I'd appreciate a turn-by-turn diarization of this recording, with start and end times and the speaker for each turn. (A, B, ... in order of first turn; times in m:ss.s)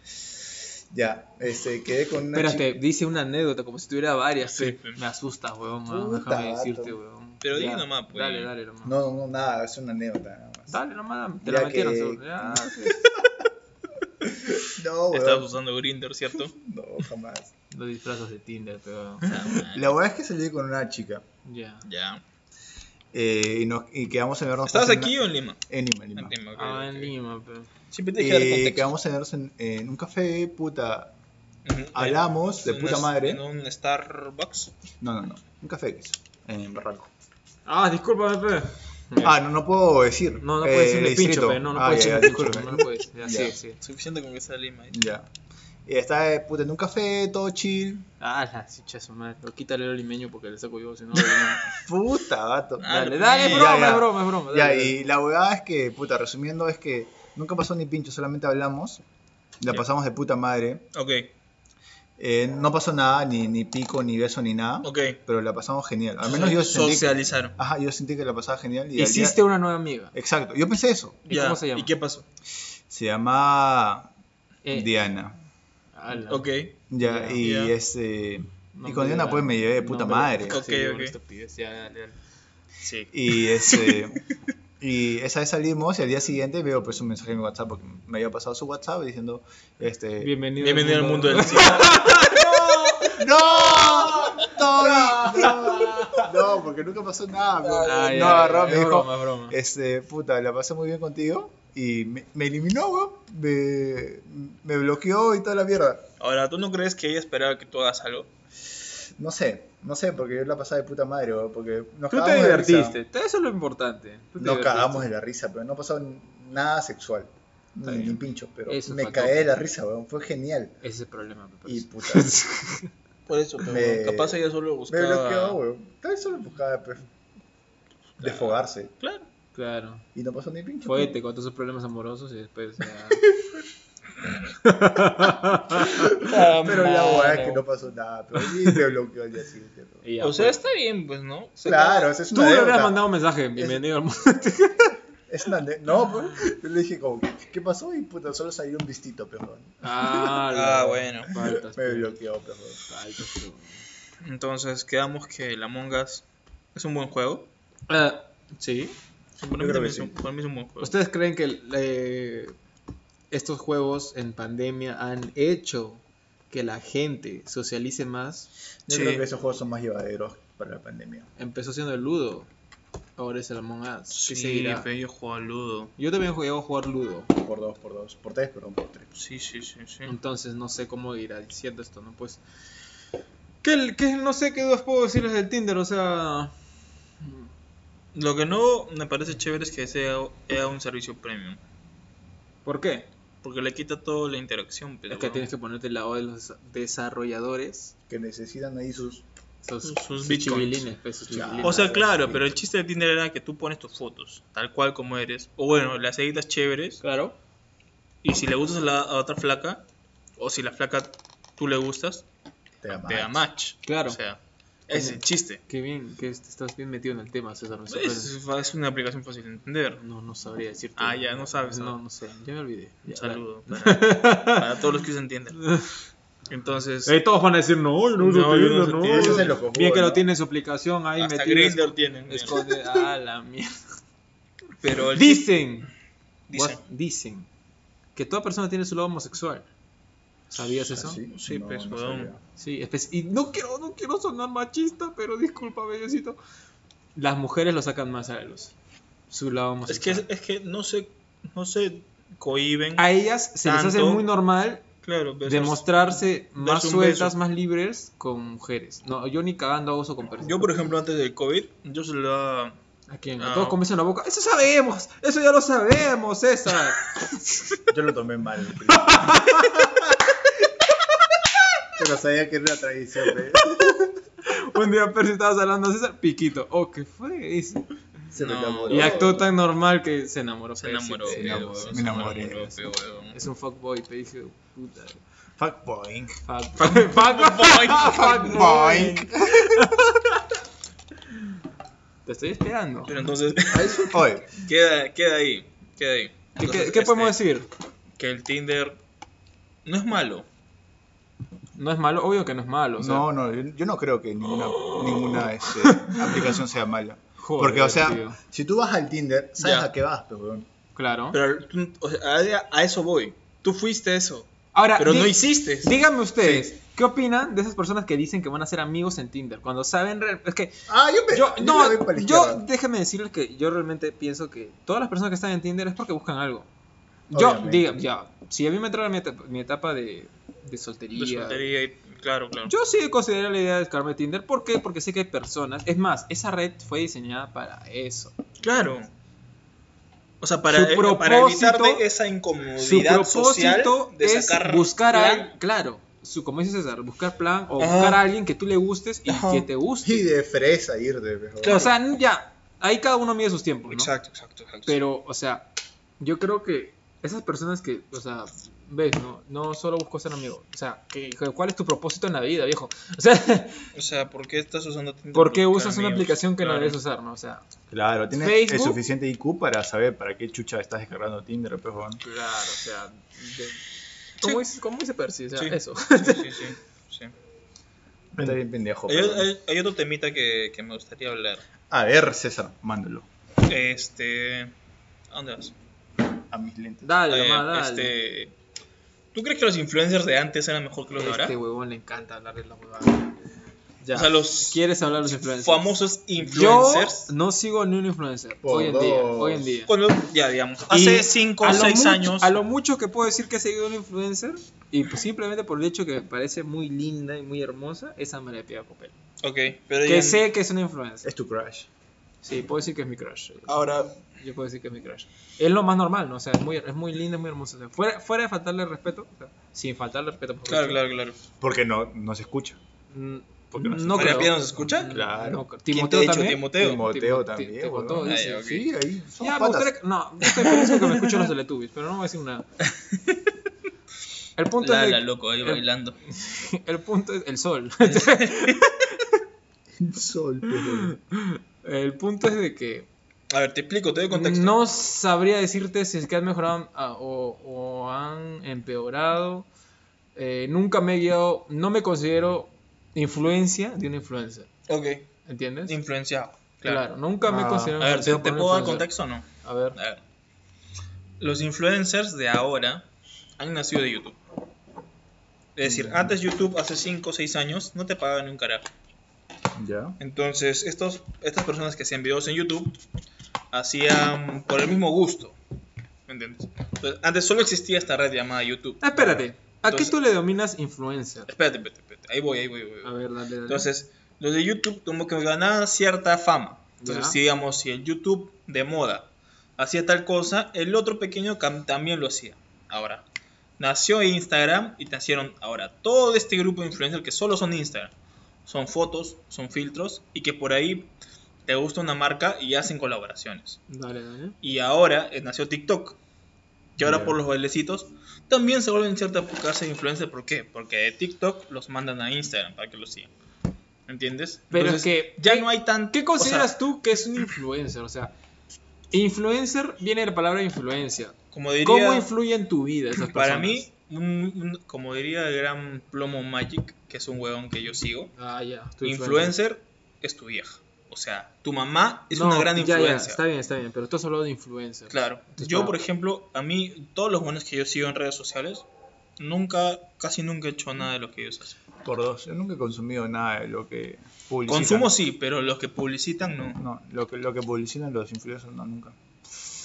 0:00.9-0:02.7 A
0:02.3-0:09.0 B
0:04.4-0:05.0 C
0:05.9-0:07.0 A
0:07.4-0:08.5 C
0:08.8-0:10.8 A
0:10.7-0:13.1 B
0:11.4-0:13.2 A
0:14.2-0:15.5 A
0:15.1-0:16.6 C
0:16.5-0:17.5 A
0:17.7-0:19.3 B
0:19.2-0:20.0 C
0:19.5-0:21.2 A
0:21.4-0:21.8 B
0:21.8-0:22.2 C
0:23.1-0:26.4 A
0:24.7-0:25.6 C
0:26.2-0:27.1 C
0:26.6-0:27.7 B
0:27.9-0:28.9 C
0:28.2-0:31.1 A
0:31.6-0:34.7 C
0:31.9-0:33.4 A
0:35.0-0:37.1 A
0:37.7-0:39.4 B
0:39.2-0:43.6 A
0:40.4-0:43.8 B
0:43.8-0:45.0 C
0:44.9-0:45.3 A
0:45.9-0:48.1 A
0:48.2-0:51.8 B
0:51.7-0:52.9 A
0:52.8-0:54.0 C
0:52.8-0:55.0 B
0:53.4-0:59.0 A
0:59.6-1:00.8 A
1:00.9-1:01.3 C
1:02.2-1:09.4 A
1:04.8-1:05.2 C
1:06.2-1:07.6 C
1:09.0-1:10.2 B
1:10.1-1:11.2 A
1:11.3-1:11.9 B
1:11.3-1:12.3 C
1:12.9-1:14.1 A
1:14.6-1:14.9 B
1:14.7-1:15.4 A
1:16.0-1:17.4 B
1:16.3-1:16.7 C
1:16.9-1:20.6 A
1:17.4-1:17.7 C
1:18.7-1:22.2 B
1:20.4-1:21.2 C
1:22.8-1:24.0 C
1:23.1-1:24.2 A
1:24.8-1:30.3 A
1:30.2-1:33.2 B
1:30.6-1:33.0 C
1:33.0-1:46.1 A
1:33.7-1:36.2 C
1:34.5-1:36.3 B
1:37.6-1:38.5 C
1:37.8-1:39.6 B
1:46.2-1:48.3 C
1:49.2-1:53.0 A
1:52.1-1:55.1 B
1:54.4-2:00.8 A
1:57.9-1:58.2 B
1:58.7-1:59.5 B
2:00.8-2:02.9 B
2:01.7-2:02.4 A
2:03.3-2:05.6 C
2:03.6-2:07.0 A
2:08.2-2:09.3 C
2:08.2-2:08.9 A
2:09.6-2:10.0 B
2:10.2-2:11.1 A
2:10.8-2:13.2 B
2:14.6-2:17.6 B
2:15.8-2:20.0 A
2:16.1-2:17.3 C
2:18.4-2:18.8 B
2:20.0-2:20.6 B
2:20.2-2:22.1 C
2:21.6-2:23.0 A
2:22.3-2:24.9 B
2:23.6-2:23.8 A
2:25.3-2:30.4 A
2:29.8-2:32.2 B
2:30.5-2:31.3 C
2:31.4-2:32.8 A
2:32.8-2:33.8 B
2:34.2-2:37.5 C
2:37.9-2:39.0 B
2:39.4-2:40.9 C
2:39.6-2:40.1 A
2:40.8-2:42.6 B
2:43.3-2:48.5 B
2:48.9-2:49.3 C
2:48.9-2:51.3 A
2:51.4-2:52.5 B
2:53.2-2:54.9 B
2:54.1-2:55.9 C
2:56.0-2:57.3 B
2:57.3-2:59.1 A
2:59.2-3:00.1 C
3:00.1-3:02.4 B
3:03.6-3:06.5 B
3:08.1-3:11.6 C
3:12.6-3:13.1 B
3:13.4-3:15.5 C
3:15.1-3:17.9 B
3:18.1-3:19.2 A
3:19.6-3:21.9 B
3:19.8-3:20.9 C
3:21.3-3:22.5 A
3:21.6-3:27.0 C
3:27.0-3:27.4 B
3:28.2-3:29.8 C
3:30.4-3:32.2 C
3:32.8-3:33.5 A
3:32.9-3:35.6 C
3:33.8-3:34.2 B
3:34.9-3:38.3 B
3:37.9-3:40.0 C
3:40.0-3:44.7 B
3:41.0-3:42.0 C
3:43.1-3:45.6 C
3:45.6-3:45.9 B
3:46.5-3:47.2 C
3:47.0-3:53.8 B
3:48.2-3:49.6 C
3:49.0-3:50.3 A
3:51.2-3:52.6 C
3:54.8-3:55.6 C
3:55.1-3:55.9 B
3:56.5-3:56.8 C
3:56.5-3:57.5 B
3:58.2-3:59.7 B
4:00.5-4:01.2 B
4:00.9-4:02.4 A
4:01.3-4:02.3 C
4:02.6-4:06.4 B
4:07.2-4:08.7 B
4:09.3-4:10.2 B
4:09.9-4:13.1 C
4:13.0-4:14.8 B
4:13.6-4:14.3 C
4:15.0-4:17.3 C
4:15.4-4:20.7 B
4:20.4-4:22.8 C
4:23.1-4:27.4 B
4:23.4-4:23.8 C
4:27.9-4:29.8 A
4:28.9-4:29.9 B
4:32.0-4:34.2 A
4:34.4-4:37.9 B
4:38.3-4:39.5 A
4:38.4-4:39.2 C
4:38.9-4:42.7 B
4:40.8-4:43.4 C
4:41.3-4:42.7 A
4:43.3-4:45.2 B
4:45.6-4:46.4 A
4:46.4-4:50.4 B
4:46.8-4:48.7 C
4:48.2-4:50.1 A
4:52.3-4:53.2 B
4:53.1-4:57.4 C
4:53.7-4:54.5 A
4:53.8-4:54.0 B
4:56.6-4:57.7 B
4:58.2-4:59.0 C
4:59.8-5:00.5 C
5:01.8-5:03.3 B
5:03.0-5:10.7 A
5:05.8-5:06.5 B
5:07.4-5:08.4 B
5:09.6-5:09.9 C
5:11.0-5:11.4 B
5:11.3-5:16.7 C
5:14.7-5:20.8 B
5:20.9-5:22.6 A
5:21.3-5:26.7 B
5:27.3-5:31.7 B
5:27.3-5:28.0 A
5:31.2-5:32.7 C
5:32.7-5:38.4 B
5:38.6-5:39.1 C
5:40.4-5:45.5 C
5:40.7-5:42.0 B
5:42.8-5:50.3 B
5:47.8-5:48.2 C
5:49.3-5:49.7 C
5:50.0-5:51.9 A
5:51.6-5:54.1 B
5:53.9-5:55.0 C
5:54.9-5:55.7 B
5:56.2-6:03.9 B
6:03.9-6:07.0 C
6:05.3-6:07.6 B
6:07.9-6:12.2 A
6:08.3-6:09.0 B
6:12.2-6:13.8 B
6:14.4-6:16.6 B
6:15.6-6:17.3 C
6:18.4-6:19.5 A
6:19.1-6:21.6 C
6:21.9-6:23.3 A
6:23.7-6:24.7 C
6:25.3-6:25.7 C
6:26.5-6:27.1 A
6:27.0-6:28.1 B
6:27.3-6:28.5 C
6:29.3-6:31.6 C
6:31.2-6:33.4 B
6:34.0-6:39.9 B
6:34.1-6:37.3 C
6:38.6-6:39.8 A
6:39.9-6:42.6 C
6:40.9-6:49.2 B
6:49.4-6:50.5 C
6:50.0-6:51.3 B
6:51.2-6:51.9 A
6:52.4-7:01.0 B
6:53.7-6:54.2 C
7:00.7-7:01.4 C
7:01.6-7:02.8 A
7:03.1-7:08.8 B
7:03.7-7:05.6 A
7:04.1-7:05.3 C
7:05.9-7:07.0 C
7:06.7-7:09.9 A
7:08.2-7:08.9 C
7:09.4-7:12.7 B
7:10.6-7:11.4 C
7:14.6-7:19.3 B
7:14.8-7:16.2 C
7:18.0-7:18.8 C
7:20.0-7:21.1 A
7:20.7-7:23.1 B
7:23.5-7:24.8 C
7:24.3-7:29.7 B
7:30.4-7:34.7 B
7:34.9-7:35.3 C
7:35.5-7:36.0 B
7:35.9-7:37.1 C
7:36.8-7:39.1 B
7:37.5-7:38.0 A
7:38.0-7:40.2 C
7:39.6-7:40.0 B
7:41.4-7:43.0 C
7:43.6-7:44.4 C
7:45.8-7:48.9 C
7:45.8-7:46.3 A
7:49.8-7:50.2 A
7:50.2-7:53.0 C
7:53.7-7:55.6 C
7:56.3-7:59.2 C
7:59.0-8:01.5 B
7:59.2-7:59.4 A
7:59.8-8:00.2 C
8:01.5-8:03.1 C
8:03.0-8:03.9 B
8:03.7-8:13.2 C
8:07.0-8:07.4 B
8:13.8-8:18.1 C
8:18.7-8:21.1 C
8:21.7-8:23.8 C
8:23.9-8:24.6 B
8:24.6-8:26.2 C
8:27.0-8:33.3 C
8:27.0-8:27.4 A
8:34.1-8:36.8 C
8:34.7-8:38.3 B
8:39.1-8:43.9 B
8:41.5-8:42.3 C
8:43.2-8:48.3 C
8:48.4-8:49.6 B
8:49.0-8:53.4 C
8:52.3-8:56.0 B
8:55.1-8:58.9 C
8:59.4-9:01.8 C
9:02.0-9:05.1 A
9:04.7-9:06.8 C
9:06.8-9:09.2 A